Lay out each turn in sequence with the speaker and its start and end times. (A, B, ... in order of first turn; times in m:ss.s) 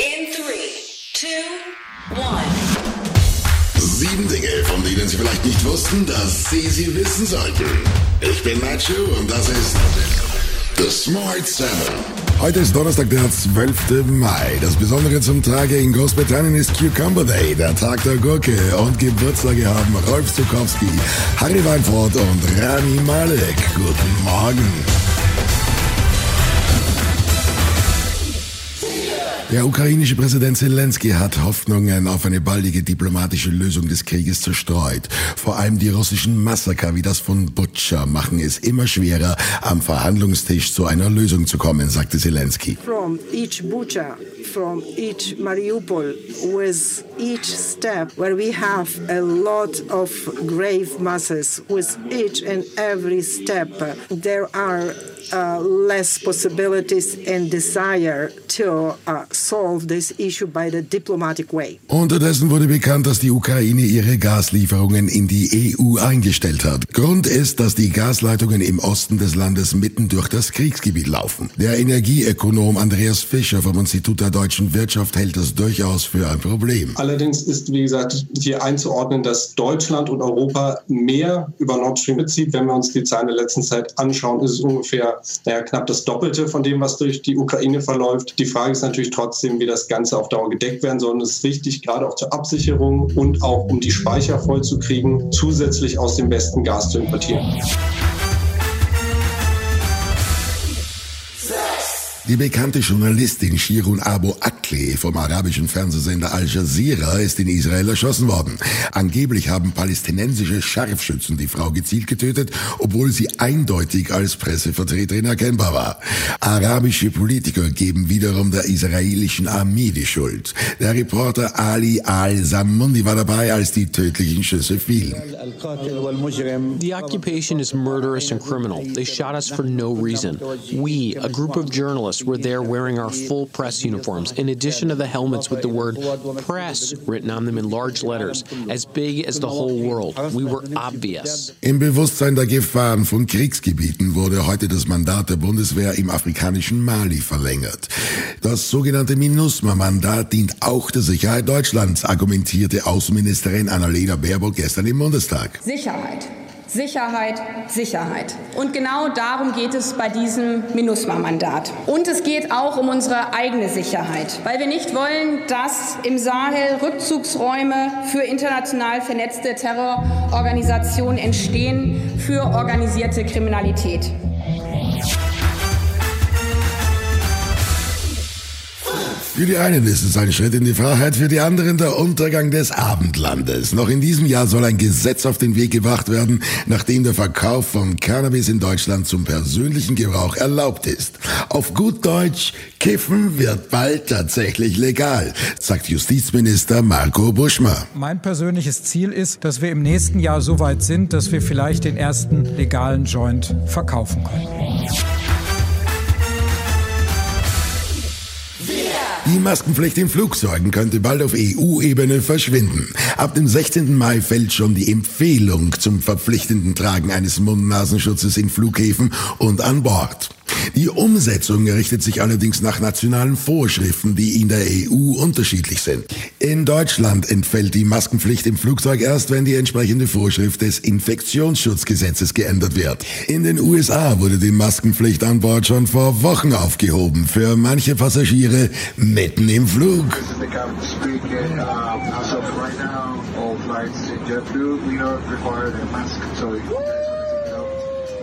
0:03.8-0:10.0 A
0:10.8-0:24.9 A
0:29.5-0:42.8 A
0:42.8-1:01.8 B
1:01.9-1:17.0 A
1:17.0-1:37.4 C
1:42.2-2:05.2 A
2:06.7-2:21.5 D
2:21.6-2:35.6 A
2:35.6-2:54.1 E
2:59.3-3:17.9 A
3:18.0-3:24.4 F
3:29.2-4:00.2 A
4:00.2-4:07.8 G